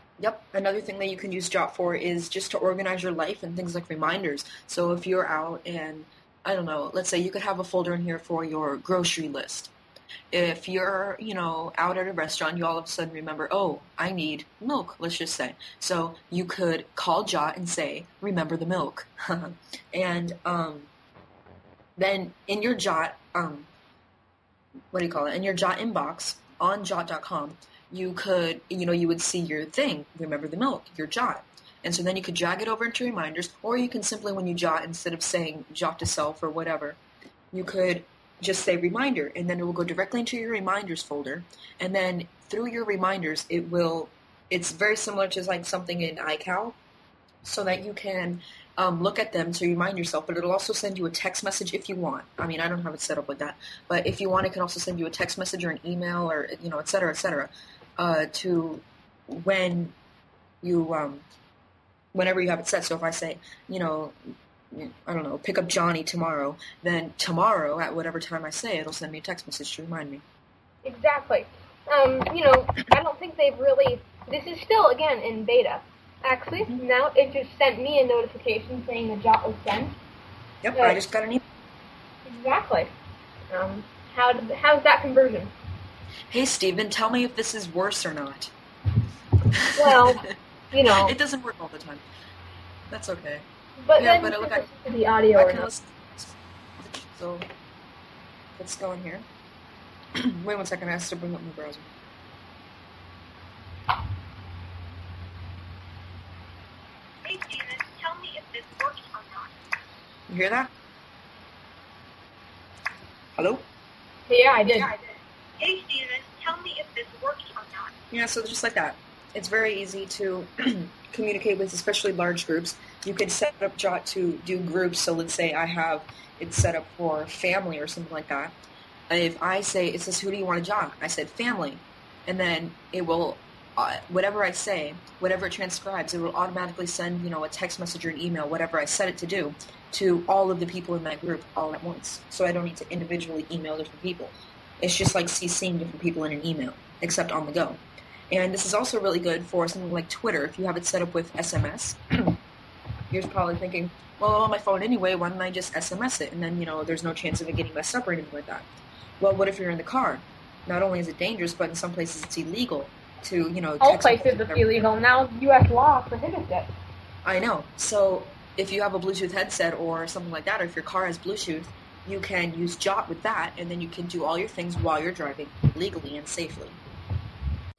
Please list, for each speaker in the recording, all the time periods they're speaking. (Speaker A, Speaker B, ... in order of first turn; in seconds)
Speaker A: 0.2-9.7, 10.3-20.9, 21.9-23.7, 24.9-37.0, 37.5-46.8, 47.4-59.9, 60.6-61.2, 62.1-70.2, 80.6-81.4, 86.3-88.5, 89.5-92.0, 92.9-93.5, 94.0-94.7, 95.3-97.5, 98.6-99.2, 100.1-101.9, 110.3-110.7, 113.4-113.6, 118.1-128.5, 129.1-152.4, 153.1-158.7, 159.2-164.8, 167.2-176.8
Speaker B: 70.8-80.0, 82.2-82.9, 83.5-85.5, 89.7-91.1, 93.8-95.7, 114.3-114.9, 163.8-166.7
Speaker C: 107.2-109.5, 114.6-117.9